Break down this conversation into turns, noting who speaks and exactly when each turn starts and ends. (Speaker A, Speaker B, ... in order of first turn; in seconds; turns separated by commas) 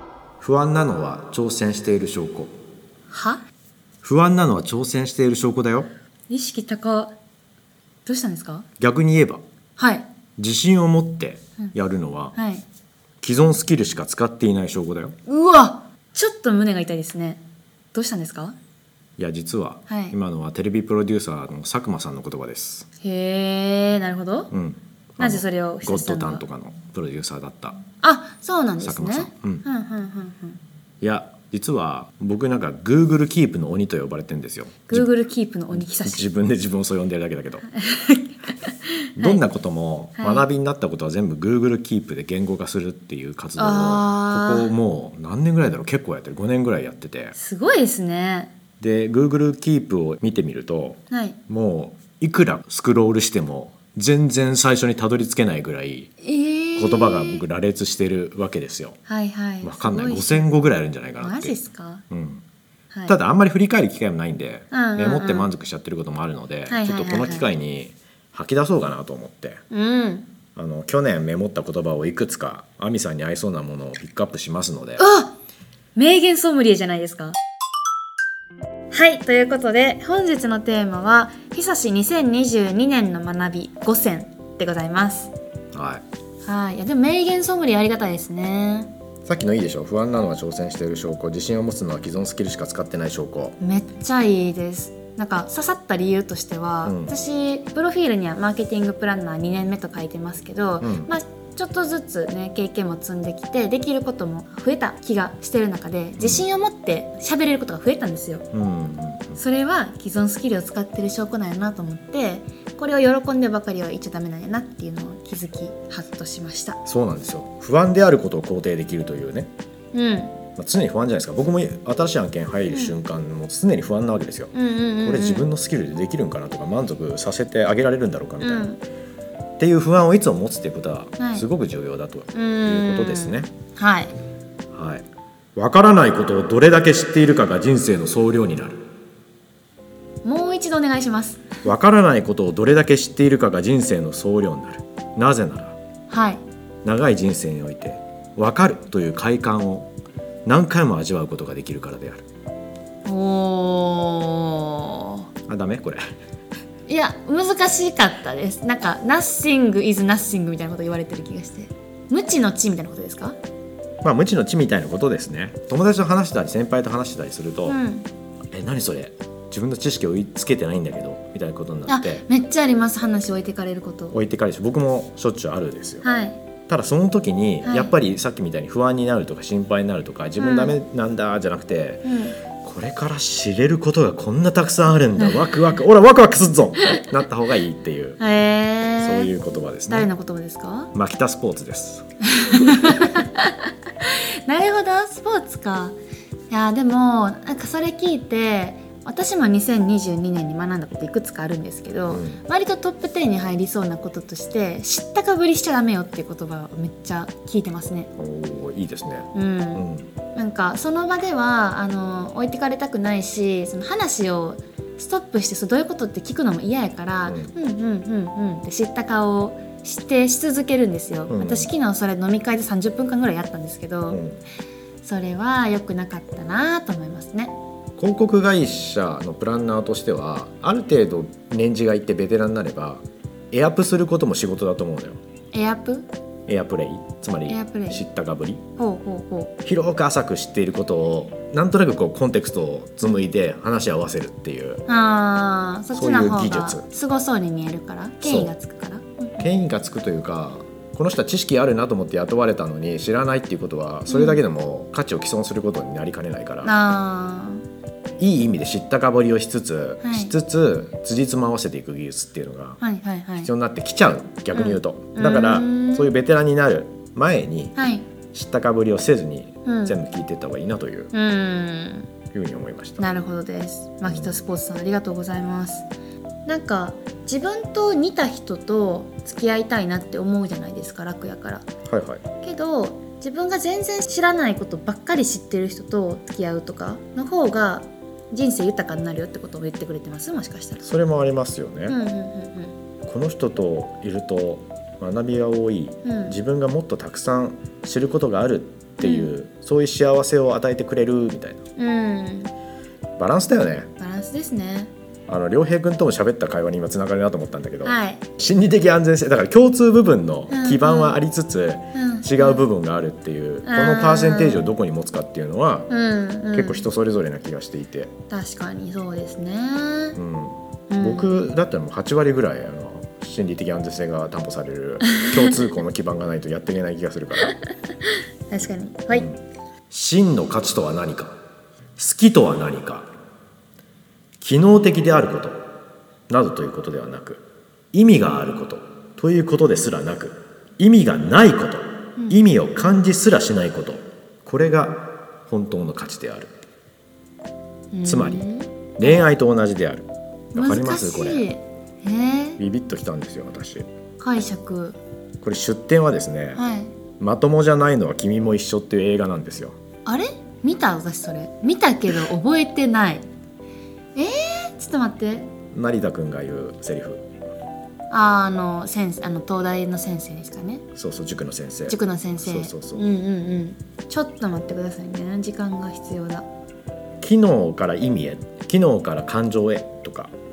Speaker A: 0.4-2.5, Speaker B: 3.1-3.4, Speaker A: 4.0-5.9, Speaker B: 6.3-7.2, Speaker B: 8.1-8.7, Speaker A: 8.8-9.4, Speaker B: 9.8-10.1, Speaker A: 10.4-12.4, Speaker B: 12.3-12.6, Speaker A: 13.2-15.2, Speaker B: 15.3-17.4, Speaker B: 17.9-18.6, Speaker A: 19.2-22.9, Speaker B: 19.9-20.2, Speaker B: 23.0-24.5, Speaker A: 24.5-27.8, Speaker B: 25.2-26.4, Speaker B: 28.0-30.6, Speaker A: 28.8-29.6, Speaker A: 31.0-35.1, Speaker B: 34.9-36.2, Speaker A: 35.7-37.7, Speaker B: 37.7-39.4, Speaker A: 39.2-47.4, Speaker B: 40.2-40.5, Speaker B: 43.6-44.7, Speaker B: 47.3-48.5, Speaker A: 48.8-56.1, Speaker B: 51.1-51.4, Speaker B: 56.2-57.4, Speaker A: 56.8-59.0, Speaker B: 59.1-60.5, Speaker A: 59.6-61.6, Speaker B: 61.2-62.0, Speaker A: 62.1-62.4, Speaker B: 62.9-63.2, Speaker A: 63.1-69.6, Speaker B: 64.7-65.5, Speaker B: 66.7-67.5, Speaker B: 69.7-70.3, Speaker A: 70.5-75.0, Speaker B: 75.0-75.3, Speaker B: 76.0-77.3, Speaker B: 78.9-85.3, Speaker A: 85.7-86.0, Speaker B: 86.5-88.9, Speaker A: 89.3-93.6, Speaker B: 93.6-108.5, Speaker A: 96.8-97.1, Speaker A: 100.8-101.1, Speaker A: 106.2-106.5, Speaker A: 108.5-109.4, Speaker B: 109.4-116.8, Speaker A: 116.8-119.5, Speaker B: 119.9-120.3, Speaker A: 120.6-128.7, Speaker B: 124.5-125.5, Speaker B: 128.4-128.8, Speaker A: 129.6-133.5, Speaker B: 131.2-131.5, Speaker B: 132.3-134.2, Speaker A: 134.7-135.1, Speaker A: 135.6-138.8, Speaker B: 140.2-141.7, Speaker A: 141.7-145.8, Speaker B: 146.1-146.4, Speaker A: 146.8-149.9, Speaker A: 150.5-152.2, Speaker B: 153.1-155.3, Speaker A: 155.5-156.0, Speaker B: 156.9-163.4, Speaker A: 164.0-167.8, Speaker B: 167.7-168.1, Speaker A: 168.5-172.2, Speaker B: 171.9-174.2, Speaker A: 174.1-176.1, Speaker B: 176.0-176.4, Speaker A: 176.7-182.1, Speaker B: 177.6-177.9, Speaker B: 180.4-180.8, Speaker B: 182.0-182.4, Speaker A: 182.6-188.2, Speaker B: 188.2-189.3, Speaker A: 189.0-190.1, Speaker B: 189.9-190.9, Speaker A: 190.9-193.2, Speaker B: 192.3-196.0, Speaker B: 196.5-208.1, Speaker A: 202.1-202.4, Speaker A: 208.2-210.1, Speaker B: 209.3-224.2, Speaker A: 217.3-217.5, Speaker A: 221.3-221.7, Speaker A: 224.1-224.4, Speaker B: 225.0-227.6, Speaker A: 228.0-235.2, Speaker B: 235.5-236.1, Speaker A: 236.5-238.6, Speaker B: 237.5-238.0, Speaker B: 238.8-239.5, Speaker A: 239.7-244.8, Speaker B: 244.9-249.5, Speaker A: 245.9-246.8, Speaker A: 248.2-248.5, Speaker A: 249.4-256.7, Speaker B: 254.1-254.4, Speaker B: 256.6-257.6, Speaker A: 258.2-262.8, Speaker B: 260.0-260.3, Speaker B: 262.8-263.5, Speaker A: 263.4-267.8, Speaker B: 264.5-266.1, Speaker B: 267.8-268.1, Speaker A: 268.3-271.1, Speaker B: 269.6-270.0, Speaker B: 271.1-272.1, Speaker A: 272.3-273.1, Speaker B: 273.0-275.9, Speaker A: 274.1-274.4, Speaker B: 276.5-281.7, Speaker A: 281.9-282.2, Speaker B: 282.4-290.8, Speaker A: 290.8-292.0, Speaker B: 291.9-292.8, Speaker A: 293.1-301.6, Speaker B: 296.1-296.4, Speaker B: 299.0-299.3, Speaker B: 301.8-302.5, Speaker A: 303.2-303.9, Speaker B: 304.0-304.9, Speaker A: 305.3-315.9, Speaker B: 307.8-308.3, Speaker B: 310.5-311.2, Speaker B: 311.9-312.6, Speaker B: 313.6-314.7, Speaker B: 315.9-316.9, Speaker A: 316.5-318.1, Speaker B: 318.3-320.2, Speaker A: 320.1-327.6, Speaker B: 320.9-321.4, Speaker B: 325.1-325.6, Speaker B: 328.1-329.3, Speaker A: 329.1-329.4, Speaker A: 329.9-331.4, Speaker A: 332.0-333.1, Speaker A: 334.4-335.6, Speaker A: 336.3-346.5, Speaker B: 347.9-348.7, Speaker A: 348.1-348.4, Speaker A: 349.0-351.4, Speaker B: 350.6-352.6, Speaker A: 352.6-353.9, Speaker B: 354.2-355.0, Speaker A: 355.4-356.6, Speaker B: 356.6-356.9, Speaker A: 357.2-359.8, Speaker B: 360.1-363.2, Speaker B: 364.2-365.5, Speaker A: 365.7-367.2, Speaker B: 368.1-370.8, Speaker A: 370.9-373.0, Speaker B: 371.9-376.5, Speaker A: 377.2-380.3